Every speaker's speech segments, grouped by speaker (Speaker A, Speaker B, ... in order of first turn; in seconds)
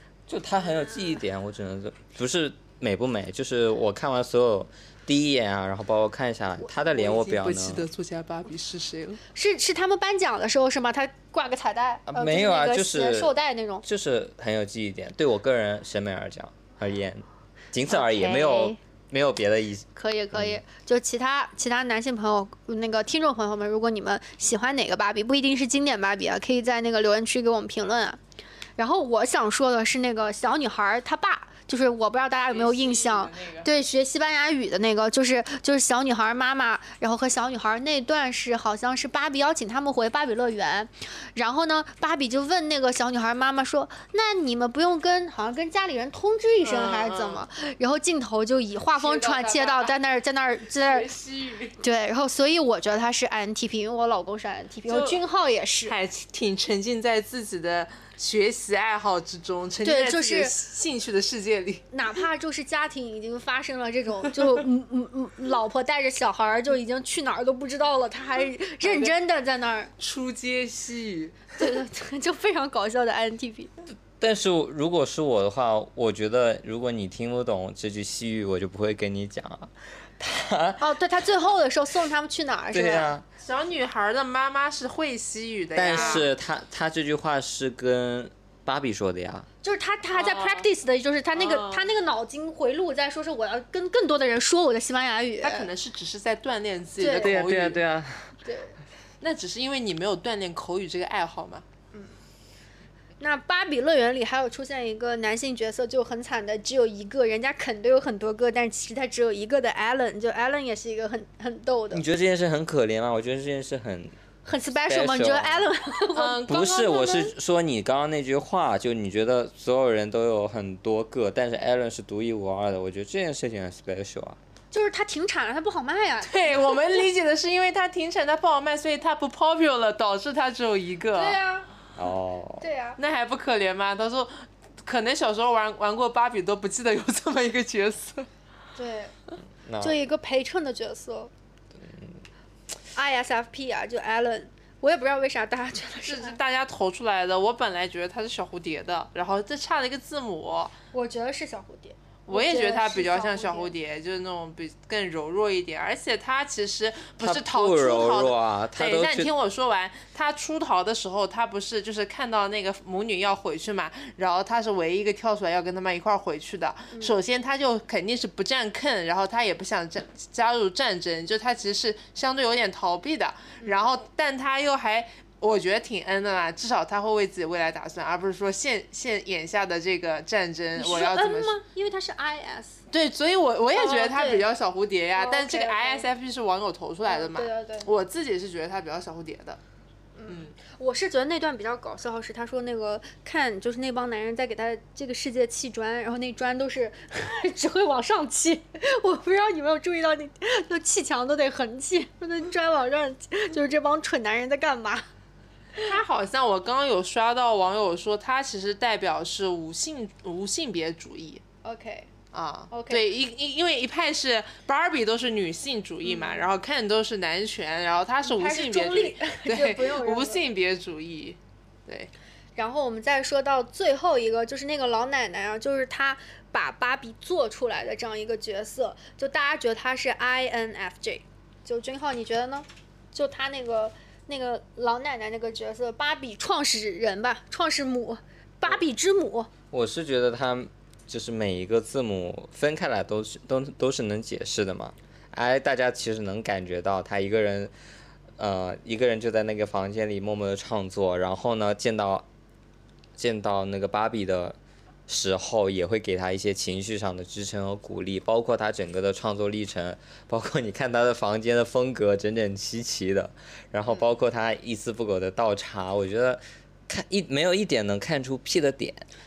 Speaker A: 0.3-7.8, 12.1-20.6, 74.2-80.9, 82.7-83.3, 85.7-89.5, 97.2-98.3, 111.9-114.2, 114.9-115.7, 116.5-124.4, 132.0-132.7, 139.7-140.0, 141.8-142.2, 157.2-159.3, 239.7-247.7, 248.4-252.3, 253.2-254.6, 255.1-269.1
Speaker B: 6.9-9.2, 32.5-33.7, 46.6-47.4, 48.9-50.0, 50.8-51.8, 54.9-55.2, 55.9-61.9, 68.8-69.1, 70.0-71.6, 83.4-86.2, 90.1-90.7, 91.3-92.0, 95.4-97.8, 99.2-101.6, 116.1-117.2, 126.2-131.4, 133.0-138.3, 146.0-150.7, 152.3-181.6, 182.9-189.6, 190.3-190.5, 205.8-211.4, 212.3-222.1
Speaker C: 9.3-13.8, 17.9-18.8, 19.9-28.2, 28.8-51.1, 51.8-55.9, 59.8-60.5, 61.9-69.9, 71.6-73.7, 80.8-83.1, 85.9-86.2, 89.6-95.7, 97.0-97.3, 98.4-98.8, 103.2-112.0, 114.4-117.3, 124.7-127.0, 131.1-131.7, 132.6-133.0, 138.8-139.1, 139.8-141.3, 142.9-146.4, 150.9-153.7, 173.6-173.9, 180.8-182.8, 183.7-184.4, 185.2-186.1, 187.1-187.9, 190.2-205.1, 211.6-212.1, 212.7-213.0, 216.0-216.4, 218.2-220.4, 222.6-239.5